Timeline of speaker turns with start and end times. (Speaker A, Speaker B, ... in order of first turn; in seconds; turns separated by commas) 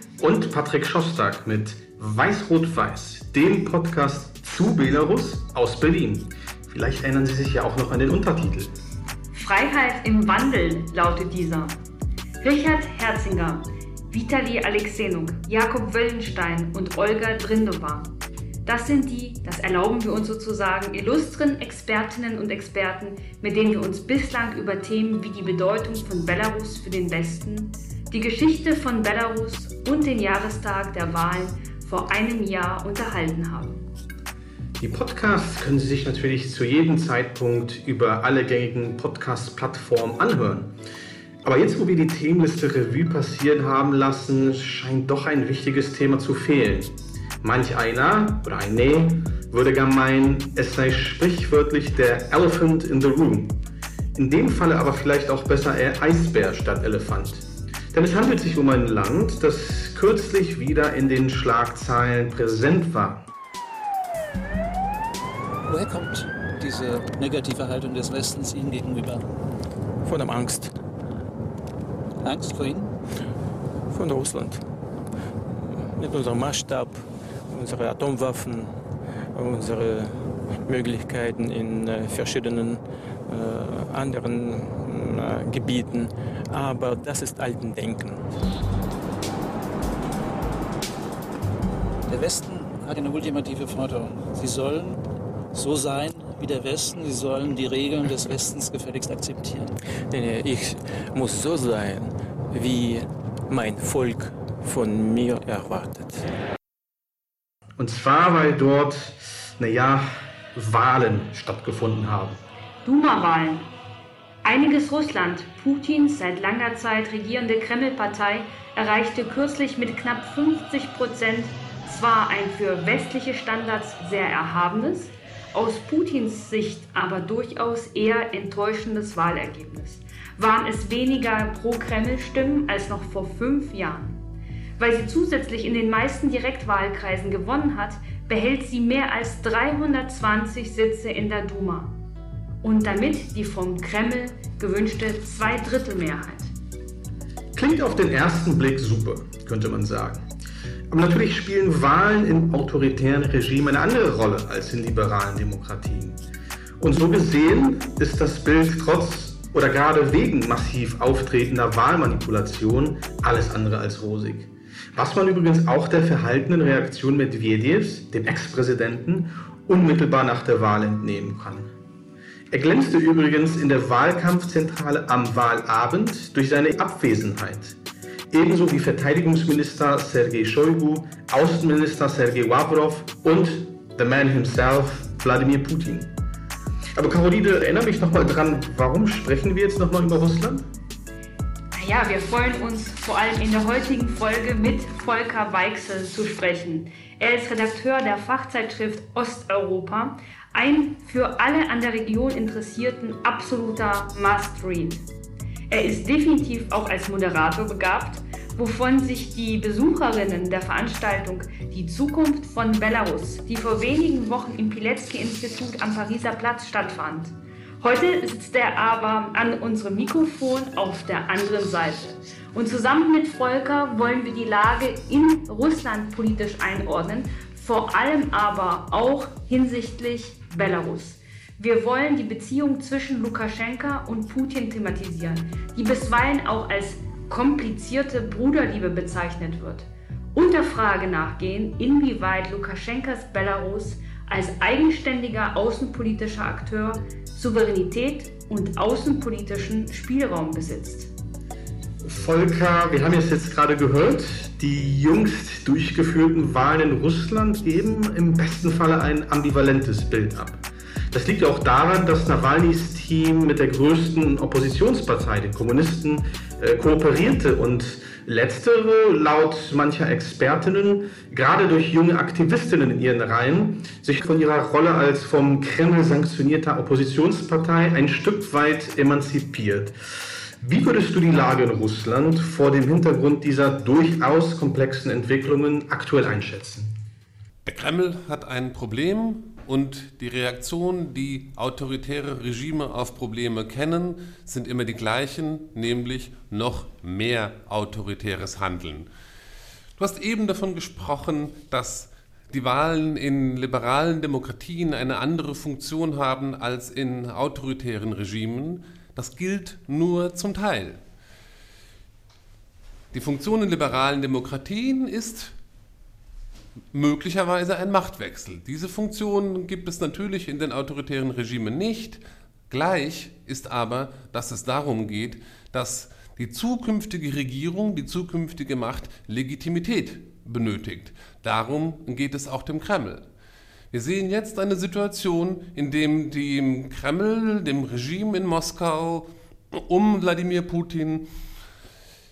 Speaker A: 0.2-8.8, Speaker B: 9.3-11.8, Speaker B: 12.4-18.1, Speaker B: 18.6-33.8, Speaker A: 34.8-40.7, Speaker A: 41.4-53.6, Speaker A: 54.1-63.2, Speaker C: 65.7-69.2, Speaker D: 70.0-70.7, Speaker C: 72.2-72.9, Speaker D: 73.9-74.6, Speaker D: 75.6-78.8, Speaker D: 79.3-88.2, Speaker C: 92.1-95.0, Speaker C: 95.5-99.7, Speaker D: 100.1-106.3, Speaker A: 107.8-112.4, Speaker B: 112.8-113.7, Speaker B: 114.4-134.2, Speaker B: 134.8-141.9, Speaker B: 142.6-146.5, Speaker A: 147.6-150.3, Speaker A: 150.9-156.2, Speaker A: 156.8-171.7, Speaker A: 172.5-177.8, Speaker A: 178.3-186.1, Speaker A: 186.9-190.7, Speaker B: 191.7-205.0, Speaker B: 205.7-251.1, Speaker A: 252.0-279.9, Speaker A: 280.6-286.9, Speaker E: 287.6-299.1, Speaker E: 300.0-311.0, Speaker E: 313.1-315.5, Speaker E: 316.9-333.2, Speaker E: 333.9-341.3